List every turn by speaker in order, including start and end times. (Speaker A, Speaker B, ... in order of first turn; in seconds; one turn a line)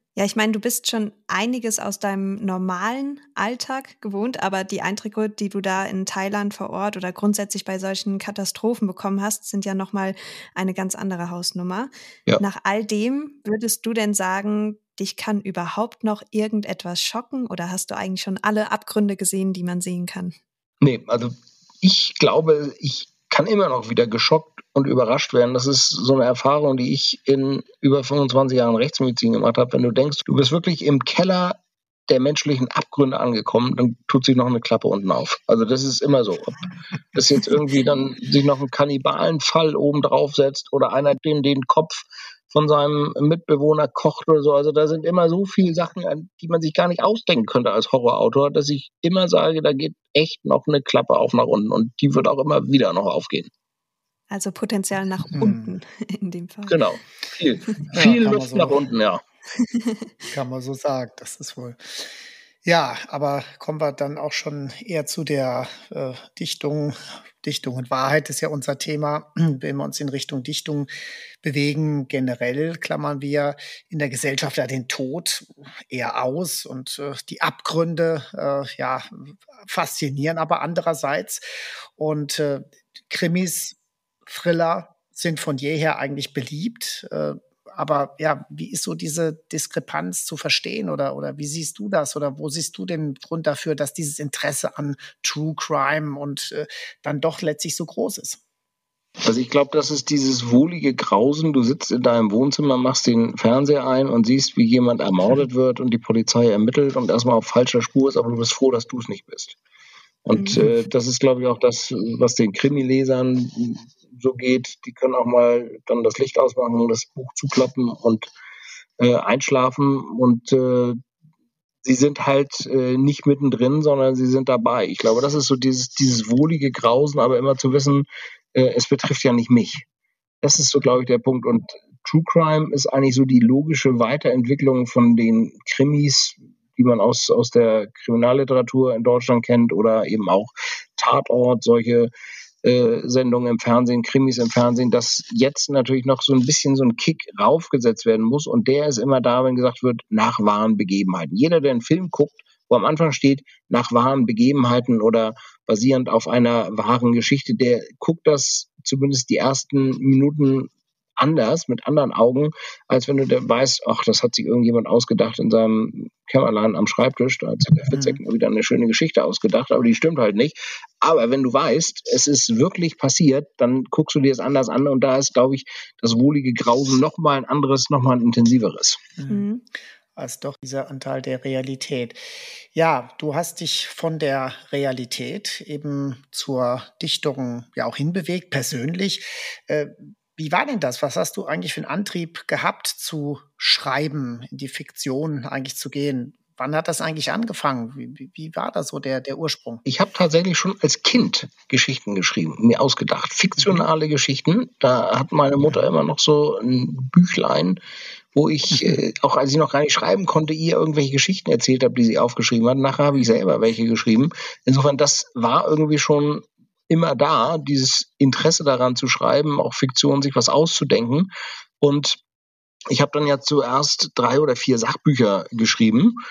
Speaker A: 0.1-20.4
Speaker B: 20.8-36.6
Speaker B: 37.1-53.5
Speaker A: 54.3-56.8
Speaker C: 55.4-55.8
Speaker B: 56.7-59.2
Speaker C: 57.9-58.8
Speaker A: 59.6-60.1
Speaker C: 60.3-70.9
Speaker C: 71.4-81.4
Speaker C: 82.0-98.4
Speaker B: 99.2-109.6
Speaker B: 110.2-118.3
Speaker B: 119.0-121.0
Speaker B: 121.8-129.9
Speaker B: 130.4-142.1
Speaker B: 142.6-179.0
Speaker C: 179.2-179.5
Speaker A: 179.3-179.6
Speaker C: 180.2-199.8
Speaker B: 199.8-207.8
Speaker B: 208.3-221.3
Speaker B: 221.8-222.2
Speaker B: 222.9-226.2